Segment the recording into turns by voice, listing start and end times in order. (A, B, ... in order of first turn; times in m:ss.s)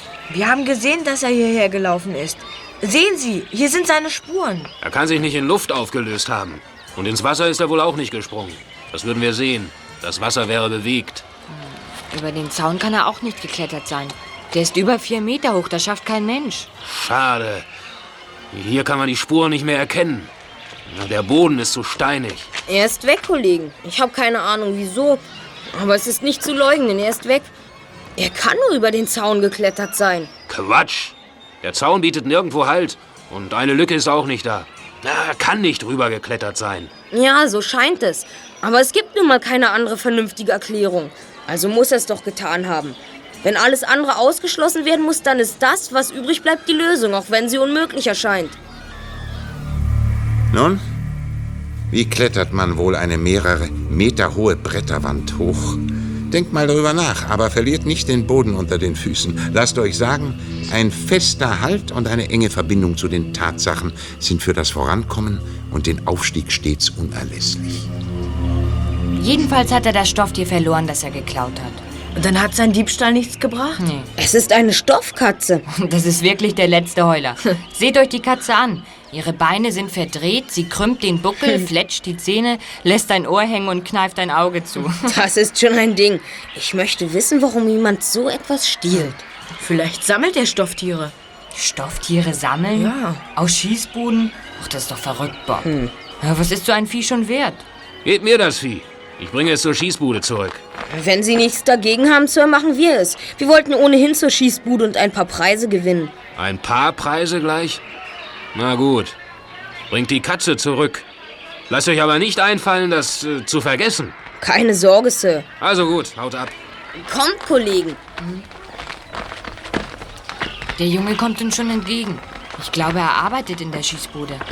0:00.3-0:04.7 A
0:04.8-0:11.2 B
0:11.5-0:16.7 C
0:16.8-0:17.7 B
0:18.5-0:20.3 B
0:20.9-0:22.5 B
0:22.7-0:25.2 D
0:25.7-0:27.5 D
0:28.2-0:30.3 D
0:30.5-0:36.9 B
0:37.1-0:48.6 D
0:50.5-0:50.8 E
0:51.9-1:07.8 E
1:09.2-1:11.8 C
1:12.1-1:13.8 A
1:13.8-1:14.1 C
1:14.2-1:15.6 D
1:15.7-1:25.1 C
1:25.0-1:29.2 D
1:29.6-1:31.1 A
1:31.5-1:35.7 C
1:32.7-1:33.2 A
1:35.6-1:35.9 D
1:36.2-1:37.6 C
1:38.0-1:40.6 B
1:40.9-1:46.1 D
1:46.4-1:47.8 B
1:48.5-1:49.2 B
1:49.9-1:51.0 B
1:51.7-1:54.1 B
1:54.4-1:55.5 D
1:55.6-1:56.5 B
1:56.9-1:58.0 D
2:00.8-2:04.4 C